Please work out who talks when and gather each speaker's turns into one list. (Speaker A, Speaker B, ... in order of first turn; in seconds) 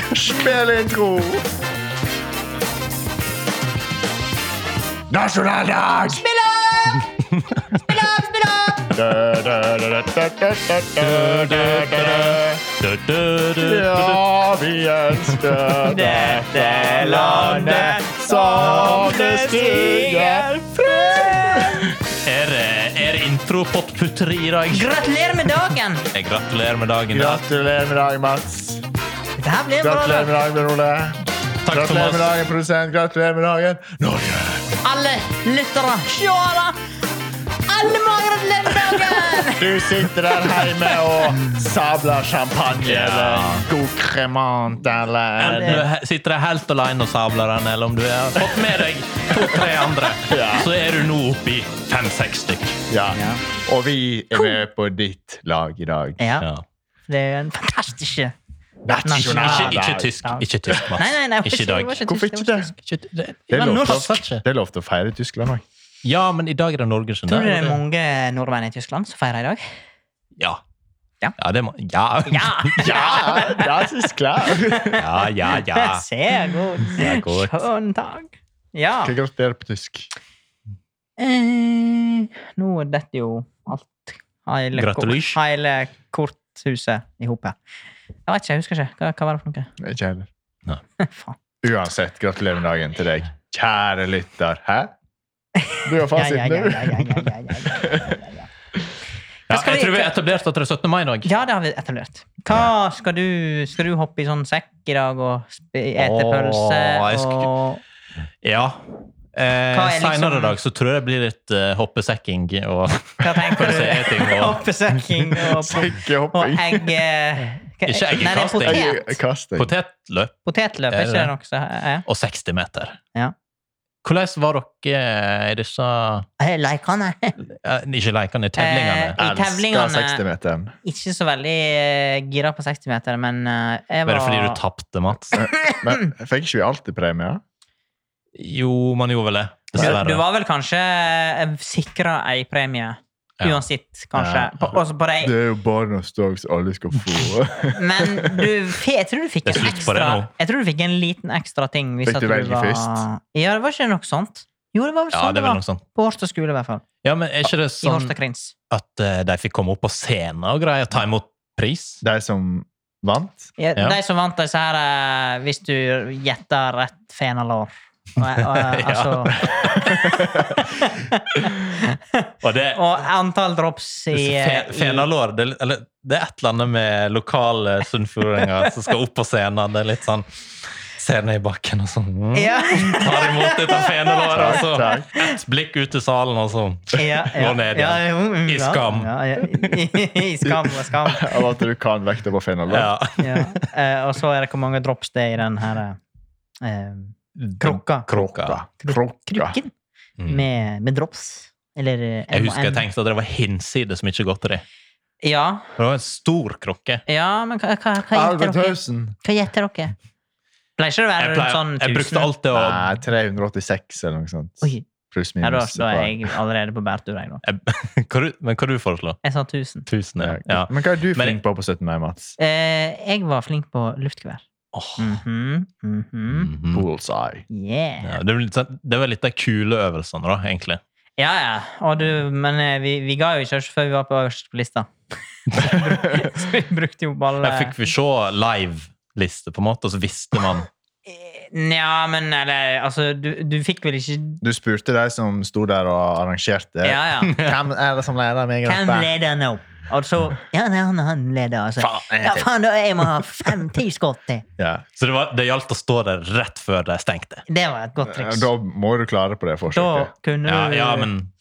Speaker A: 0.1-1.4, 5.1-6.2, 8.9-12.6, 13.6-22.0, 27.1-28.8, 29.8-34.8, 39.5-45.8, 50.2-50.7, 52.9-56.2, 58.9-60.1, 62.0-62.7, 63.5-65.6, 72.8-75.1, 79.0-80.1, 89.8-90.3, 91.6-94.9, 95.8-98.2, 115.4-117.0, 118.6-119.7, 129.2-130.7, 135.3-137.4, 144.2-148.5, 152.0-153.1, 162.0-163.5, 169.8-170.2, 184.3-185.1, 190.5-192.9, 198.1-199.6, 208.1-209.2, 212.5-216.2, 220.2-222.3, 226.7-227.4, 244.4-249.1, 251.8-252.5, 254.6-254.8, 258.0-260.1
Speaker B: 6.1-7.1, 7.7-9.0, 15.8-21.9, 24.7-26.1, 29.4-30.3, 34.8-36.8, 37.7-39.9, 45.5-45.8, 53.1-53.4, 56.2-56.5, 57.1-58.3, 59.0-62.7, 67.3-69.6, 72.2-73.8, 74.6-79.1, 81.2-87.6, 88.3-89.7, 91.0-91.4, 95.6-98.5, 99.5-100.3, 101.2-107.8, 109.7-110.6, 113.2-119.2, 120.5-122.0, 126.4-127.4, 128.6-130.2, 130.8-134.6, 135.3-136.1, 139.8-145.3, 147.8-156.8, 157.8-158.5, 163.6-175.1, 182.3-185.4, 186.9-191.3, 193.2-196.0, 196.6-198.1, 198.8-199.7, 200.3-202.8, 205.2-205.7, 207.1-209.9, 210.8-212.3, 215.4-217.4, 219.2-219.8, 222.4-224.4, 225.0-226.5, 227.5-228.1, 231.2-237.8, 241.1-244.4, 246.8-247.4, 248.7-254.4, 257.5-258.5, 259.7-261.1
Speaker C: 7.4-7.6, 11.0-14.2, 17.6-17.9, 22.2-24.9, 26.1-27.4, 31.6-32.3, 42.8-43.7, 45.4-52.8, 59.1-62.0, 62.8-64.4, 66.0-67.8, 71.4-73.2, 75.0-76.0, 76.9-77.7, 84.8-85.4, 99.5-101.3, 106.0-107.5, 108.4-114.6, 117.9-118.9, 119.6-120.3, 120.9-121.3, 122.1-123.0, 124.0-126.3, 127.4-129.2, 134.1-135.4, 138.3-140.2, 149.5-150.3, 155.1-155.8, 157.0-158.2, 158.7-162.0, 168.4-170.5, 172.4-172.8, 174.1-189.8, 192.7-193.7, 197.4-198.6, 200.2-200.4, 202.3-204.6, 205.8-207.0, 211.2-212.9, 217.4-219.2, 219.9-221.4, 224.7-225.2, 226.3-226.8, 228.0-230.8, 237.4-240.7, 247.3-247.5, 255.0-257.4, 260.4-261.3